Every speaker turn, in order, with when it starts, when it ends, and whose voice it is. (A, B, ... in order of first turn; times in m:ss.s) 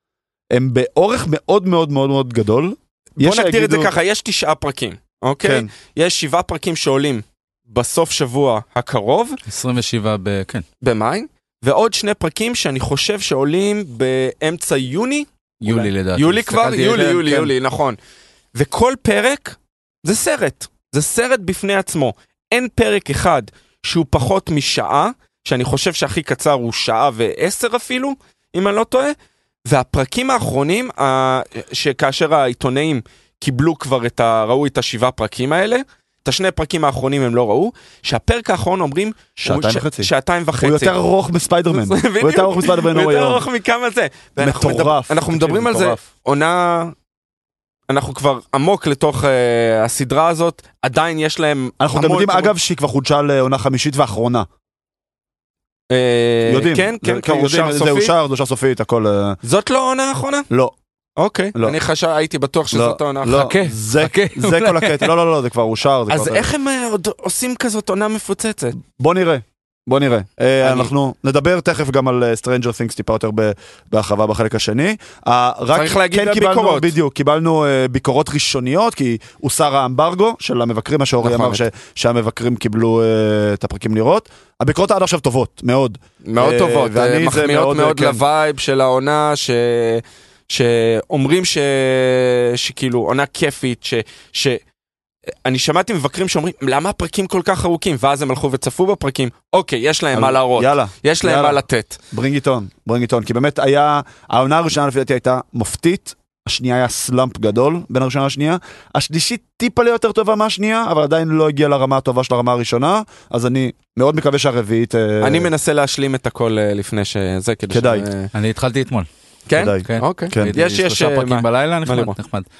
0:00.5-0:03.9 A
0:03.2-0:09.4 B
0:05.4-0:05.7 A
0:09.5-0:10.6 C
0:10.8-0:18.0 B
0:15.6-0:17.4 C
0:16.7-0:17.5 A
0:18.5-0:29.1 B
0:29.7-0:40.9 B
0:39.4-0:43.4 A
0:41.7-0:46.9 B
0:44.4-0:46.0 A
0:47.9-0:52.5 B
0:51.8-0:54.5 A
0:55.9-0:58.1 B
0:56.4-0:59.4 A
0:59.4-1:00.5 B
1:01.2-1:03.5 B
1:02.7-1:06.5 A
1:03.3-1:05.1 C
1:06.1-1:08.8 B
1:08.8-1:28.2 A
1:10.6-1:10.9 B
1:15.7-1:16.9 B
1:21.2-1:21.6 B
1:26.2-1:34.6 B
1:35.4-1:42.0 B
1:40.1-1:55.5 A
1:55.2-1:58.3 B
1:57.7-1:58.0 A
1:58.3-1:59.1 C
1:59.5-2:02.2 B
1:59.5-2:00.6 A
1:59.8-2:02.4 C